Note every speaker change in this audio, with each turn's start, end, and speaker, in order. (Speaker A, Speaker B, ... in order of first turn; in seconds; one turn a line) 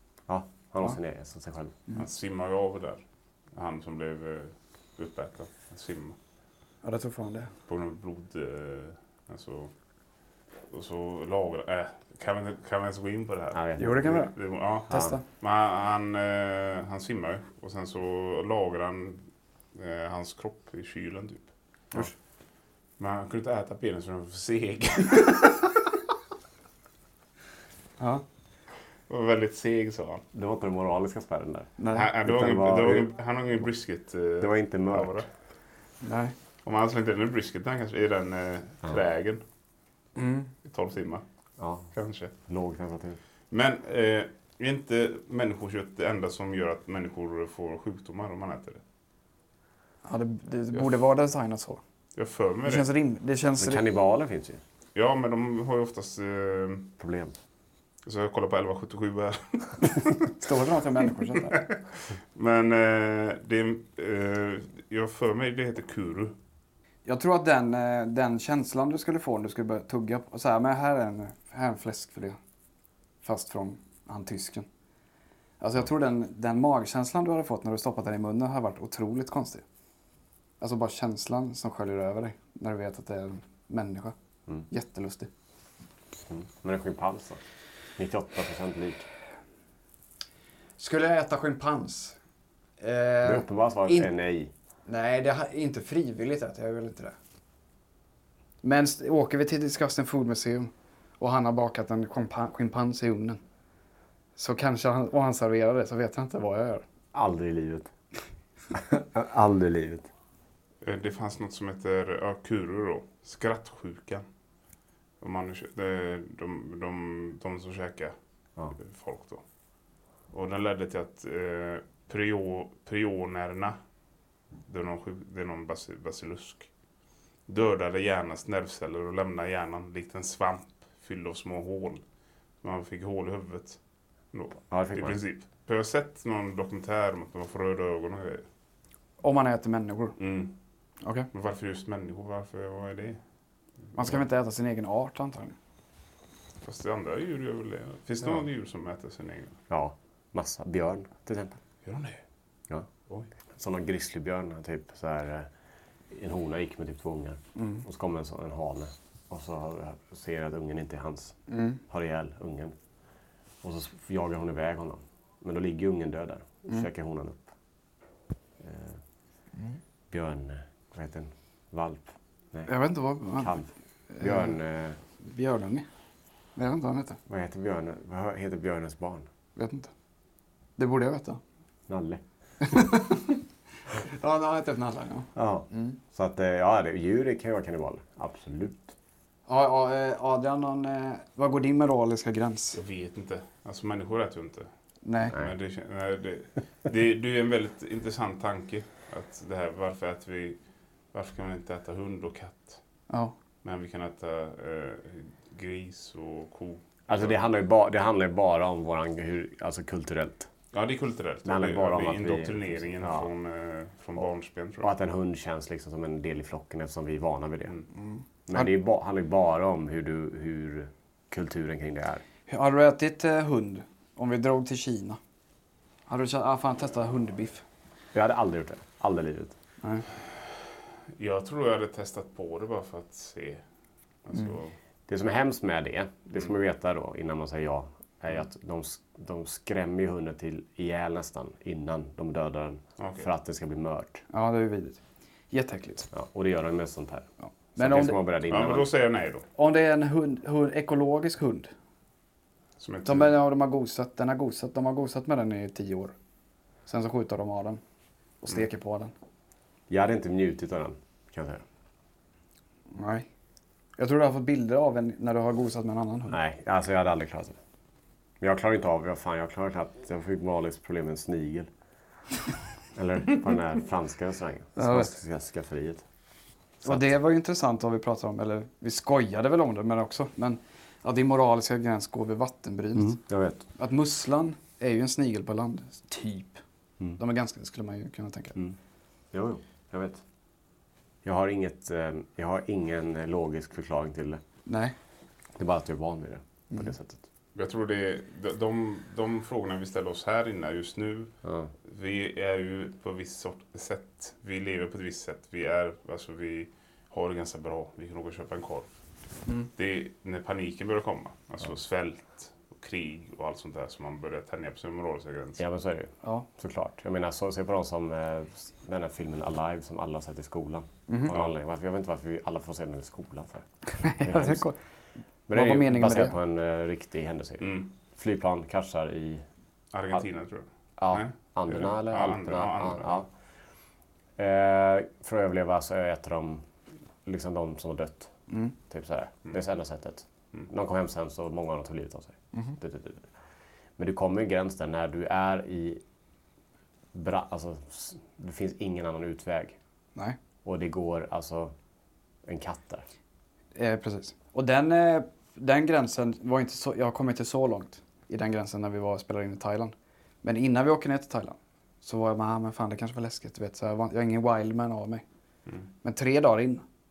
Speaker A: 0.3-1.8
Speaker B: 2.0-6.2
Speaker C: 6.8-7.5
Speaker B: 7.7-9.7
Speaker B: 10.7-22.0
Speaker A: 13.5-14.3
Speaker C: 13.8-14.3
Speaker C: 14.9-15.2
Speaker A: 14.9-15.2
Speaker B: 23.0-25.6
Speaker B: 29.1-30.2
Speaker A: 30.3-31.7
Speaker C: 31.8-32.1
Speaker B: 31.9-35.3
Speaker A: 32.2-33.1
Speaker A: 34.4-35.2
Speaker C: 36.0-36.3
Speaker B: 36.6-39.4
Speaker C: 40.1-40.5
Speaker B: 40.6-41.2
Speaker A: 41.6-41.9
Speaker B: 41.9-42.3
Speaker A: 42.4-43.2
Speaker B: 43.5-48.8
Speaker C: 50.0-51.8
Speaker B: 52.1-52.9
Speaker C: 52.6-53.8
Speaker A: 53.6-54.6
Speaker B: 54.9-56.9
Speaker A: 57.0-57.3
Speaker B: 58.0-60.3
Speaker C: 60.4-61.6
Speaker B: 61.4-66.3
Speaker C: 67.0-72.4
Speaker C: 73.2-74.7
Speaker C: 75.6-79.6
Speaker C: 80.6-84.1
Speaker C: 84.7-85.3
Speaker A: 86.3-87.4
Speaker A: 88.0-89.1
Speaker C: 90.8-92.2
Speaker C: 92.8-94.1
Speaker A: 93.2-94.5
Speaker C: 94.8-97.1
Speaker C: 98.6-103.4
Speaker C: 104.3-106.8
Speaker A: 107.1-107.9
Speaker A: 108.7-110.1
Speaker B: 110.8-114.2
Speaker B: 115.2-118.1
Speaker B: 118.7-119.4
Speaker B: 120.3-123.8
Speaker B: 124.7-126.7
Speaker B: 127.5-132.0
Speaker B: 132.6-138.4
Speaker A: 134.7-135.2
Speaker C: 139.2-140.2
Speaker B: 140.2-140.5
Speaker C: 141.0-141.3
Speaker B: 141.3-143.2
Speaker C: 143.9-145.5
Speaker B: 146.6-149.6
Speaker A: 149.7-151.6
Speaker B: 151.8-152.2
Speaker A: 153.5-155.5
Speaker A: 156.1-162.7
Speaker C: 157.6-157.8
Speaker C: 161.5-161.8
Speaker A: 163.6-167.5
Speaker A: 168.6-169.0
Speaker A: 170.1-172.7
Speaker C: 172.7-174.6
Speaker A: 173.3-173.7
Speaker A: 174.2-175.0
Speaker C: 175.2-175.8
Speaker C: 176.6-177.2
Speaker A: 177.3-179.3
Speaker C: 179.6-179.9
Speaker C: 180.8-181.4
Speaker A: 181.9-182.2
Speaker C: 182.6-183.4
Speaker C: 183.9-186.0
Speaker A: 185.3-188.9
Speaker C: 189.5-192.8
Speaker B: 192.7-194.7
Speaker C: 195.0-195.3
Speaker A: 195.3-195.5
Speaker B: 195.3-202.8
Speaker C: 203.1-203.3
Speaker B: 203.6-207.4
Speaker A: 207.1-210.5
Speaker B: 210.7-214.9
Speaker A: 211.4-213.3
Speaker A: 214.8-217.7
Speaker C: 217.9-218.7
Speaker A: 218.5-222.2
Speaker C: 222.5-225.2
Speaker C: 226.1-227.6
Speaker A: 228.1-229.5
Speaker B: 231.2-233.6
Speaker B: 234.2-234.8
Speaker A: 235.1-244.2
Speaker B: 243.0-243.3
Speaker C: 244.3-246.1
Speaker A: 246.1-248.9
Speaker C: 247.4-248.2
Speaker B: 248.5-249.4
Speaker C: 249.5-251.7
Speaker B: 252.8-253.3
Speaker C: 253.0-256.1
Speaker C: 256.9-257.8
Speaker C: 258.4-259.1
Speaker A: 259.9-261.6
Speaker C: 262.9-263.3
Speaker C: 264.0-266.4
Speaker A: 266.3-267.6
Speaker A: 268.4-271.7
Speaker A: 272.9-276.0
Speaker C: 274.8-275.1
Speaker C: 276.8-283.2
Speaker A: 282.9-283.6
Speaker C: 283.8-286.6
Speaker C: 287.2-288.6
Speaker A: 289.3-290.2
Speaker A: 291.2-294.4
Speaker C: 294.6-294.9
Speaker A: 295.6-297.2
Speaker B: 297.5-301.3
Speaker A: 301.4-301.7
Speaker B: 301.9-308.9
Speaker B: 309.7-315.6
Speaker A: 315.6-324.6
Speaker C: 323.9-324.8
Speaker A: 325.5-329.4
Speaker C: 325.5-326.3
Speaker B: 327.6-327.9
Speaker B: 329.9-333.2
Speaker A: 331.0-333.3
Speaker A: 334.4-336.6
Speaker A: 337.2-338.3
Speaker C: 338.5-338.7
Speaker A: 338.9-343.3
Speaker A: 344.0-346.0
Speaker A: 347.1-349.8
Speaker A: 350.6-351.7
Speaker A: 352.4-353.0
Speaker C: 353.7-365.2
Speaker C: 366.0-366.8